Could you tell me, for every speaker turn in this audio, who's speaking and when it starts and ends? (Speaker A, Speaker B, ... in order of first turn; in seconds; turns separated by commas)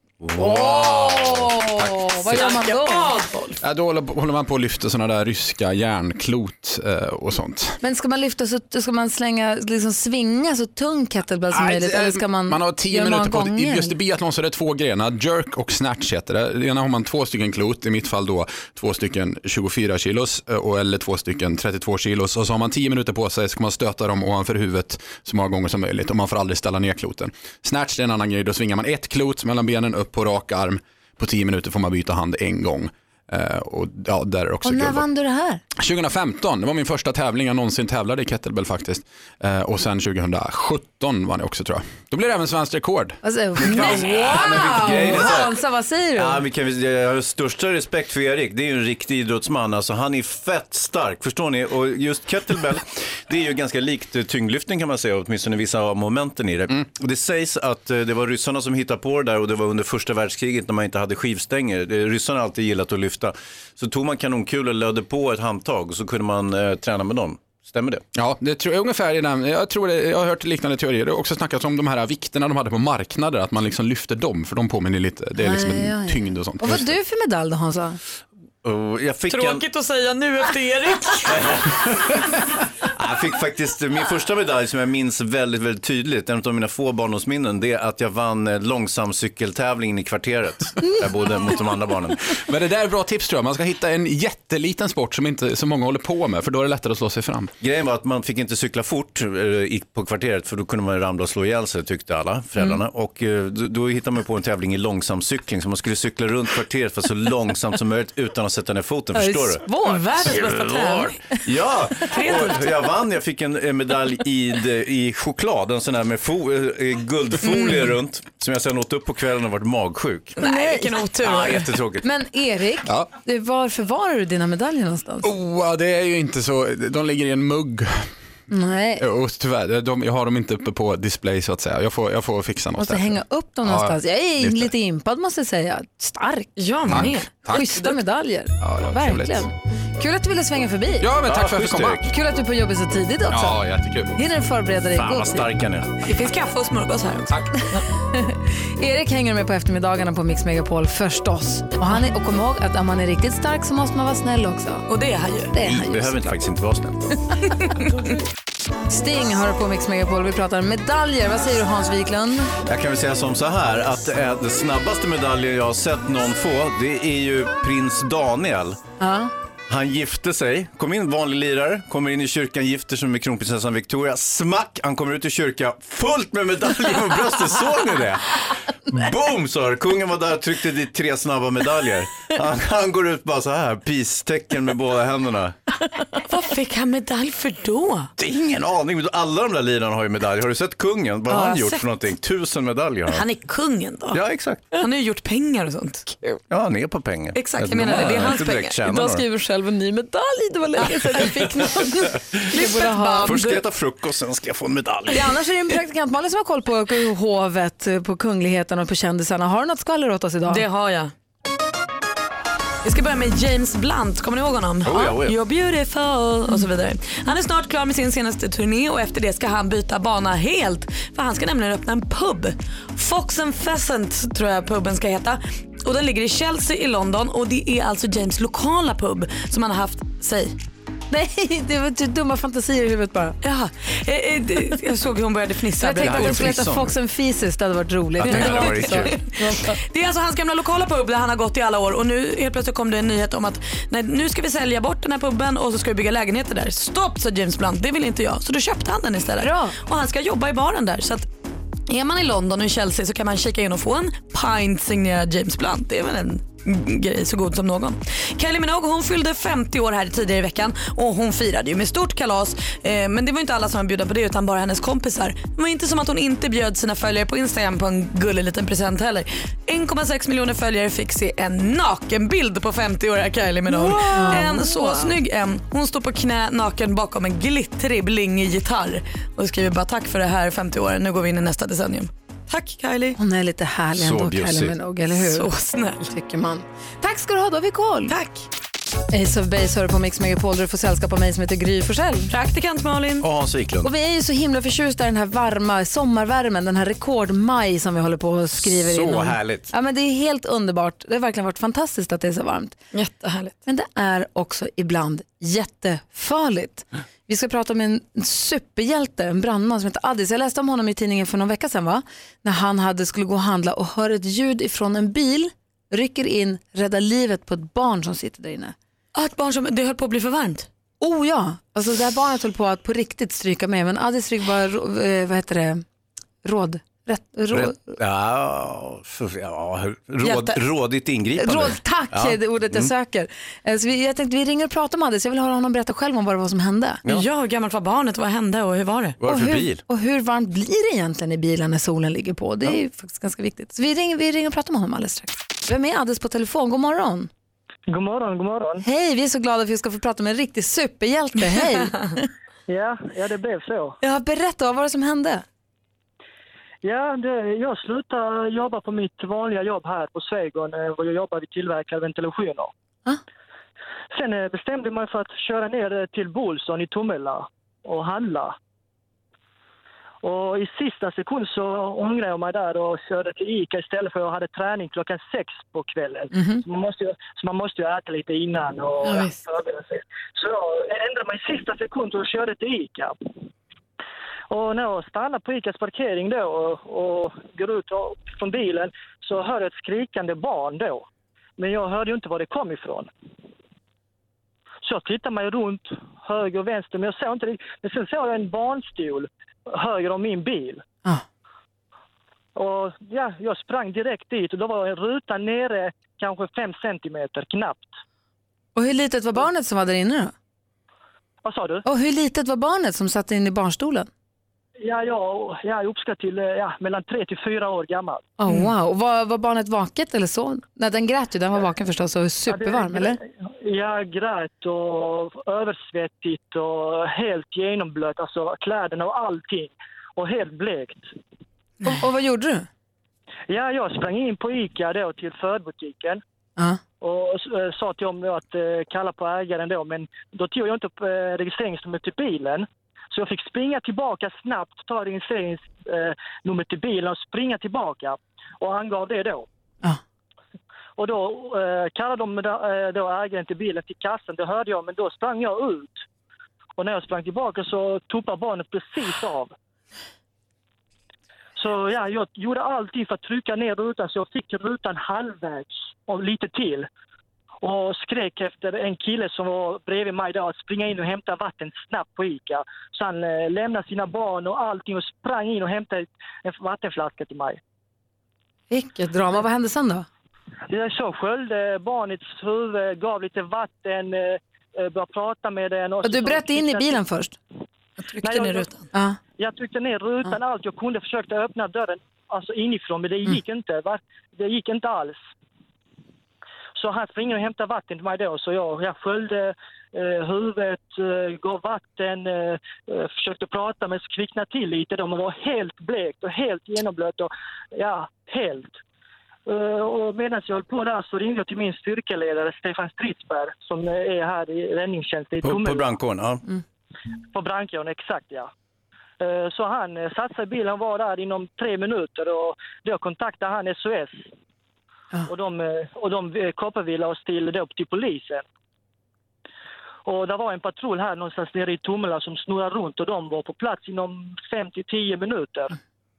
Speaker A: 0.2-1.5, Speaker B: 0.3-3.1, Speaker C: 2.3-3.6, Speaker D: 3.6-7.8, Speaker B: 7.8-13.9, Speaker D: 11.5-35.0, Speaker B: 34.6-35.6, Speaker D: 35.8-43.2, Speaker B: 43.2-46.4, Speaker A: 43.6-45.5, Speaker A: 46.2-68.0, Speaker D: 68.2-76.9, Speaker B: 75.4-78.0, Speaker A: 78.6-79.6, Speaker C: 79.3-81.6, Speaker A: 81.3-82.2, Speaker A: 82.9-92.3, Speaker D: 92.3-97.5, Speaker A: 97.6-109.7, Speaker B: 109.1-110.7, Speaker C: 109.9-111.2, Speaker A: 110.4-120.4, Speaker C: 112.1-112.8, Speaker C: 120.4-121.7, Speaker B: 120.4-120.7, Speaker A: 121.2-122.1, Speaker B: 122.0-125.3, Speaker D: 125.2-128.1, Speaker B: 128.5-129.0, Speaker D: 129.0-134.7, Speaker B: 132.8-136.6, Speaker C: 136.6-137.4, Speaker D: 136.9-138.0, Speaker B: 137.5-141.1, Speaker D: 138.6-139.5, Speaker D: 141.0-142.0, Speaker A: 141.2-142.1, Speaker B: 142.0-143.6, Speaker D: 143.3-144.2, Speaker B: 144.1-145.5, Speaker A: 144.9-145.9, Speaker C: 146.0-147.8, Speaker B: 148.1-154.9, Speaker C: 154.9-155.6, Speaker B: 155.5-156.3, Speaker A: 155.6-157.1, Speaker B: 158.9-162.5, Speaker A: 162.7-168.8, Speaker B: 169.0-169.3, Speaker A: 169.7-185.6, Speaker C: 186.2-188.1, Speaker A: 188.2-193.3, Speaker C: 191.3-191.8, Speaker C: 193.1-194.2, Speaker A: 194.1-194.6, Speaker C: 194.7-196.2, Speaker A: 196.5-199.2, Speaker C: 197.3-198.8, Speaker B: 198.8-203.4, Speaker C: 200.8-201.3, Speaker C: 202.4-203.6, Speaker A: 203.2-205.4, Speaker B: 205.1-210.6, Speaker C: 210.5-211.1, Speaker C: 212.8-230.5, Speaker A: 214.8-215.4, Speaker B: 231.1-233.4, Speaker C: 233.4-236.5, Speaker B: 235.8-239.8, Speaker A: 236.0-236.9, Speaker A: 238.2-239.2, Speaker C: 238.2-251.3, Speaker B: 249.4-249.8, Speaker C: 251.9-283.2, Speaker B: 273.7-275.1, Speaker B: 283.2-285.5, Speaker A: 284.0-284.8, Speaker C: 285.1-286.1, Speaker B: 286.1-288.1, Speaker C: 288.1-288.5, Speaker B: 289.1-292.3, Speaker C: 292.3-293.3, Speaker A: 293.2-293.9, Speaker B: 293.8-302.8, Speaker A: 298.6-299.7, Speaker C: 302.9-303.6, Speaker B: 303.7-318.8, Speaker C: 319.1-320.7, Speaker B: 321.0-325.8, Speaker B: 326.4-327.9, Speaker A: 327.5-332.9, Speaker C: 330.2-330.6, Speaker B: 331.4-337.0, Speaker C: 337.1-339.2, Speaker A: 339.2-339.8, Speaker B: 339.3-347.3, Speaker E: 347.9-348.8, Speaker B: 348.8-352.3, Speaker E: 352.7-354.0, Speaker B: 354.0-355.4, Speaker E: 356.8-362.7, Speaker E: 364.1-368.6, Speaker E: 370.2-383.1, Speaker B: 376.3-376.6, Speaker B: 379.1-379.4, Speaker E: 384.5-391.1, Speaker E: 391.6-393.1, Speaker E: 394.8-400.8, Speaker E: 402.6-407.9, Speaker B: 408.8-410.3, Speaker E: 411.4-411.8, Speaker B: 411.9-414.1, Speaker E: 414.8-418.3, Speaker B: 418.4-423.2, Speaker E: 422.5-431.1, Speaker B: 431.8-432.7, Speaker E: 433.5-436.2, Speaker E: 437.0-449.5, Speaker E: 451.0-456.0, Speaker E: 456.8-459.5, Speaker E: 461.6-466.9, Speaker E: 467.6-477.6, Speaker B: 478.7-480.1, Speaker E: 480.7-487.0, Speaker B: 486.0-487.4, Speaker C: 488.1-488.9, Speaker E: 488.2-488.7, Speaker B: 488.9-489.2, Speaker E: 489.4-495.2, Speaker E: 496.8-508.8, Speaker E: 509.5-515.9, Speaker A: 515.4-516.4, Speaker E: 517.3-518.5, Speaker E: 519.2-524.3, Speaker E: 525.3-528.5, Speaker E: 530.1-535.8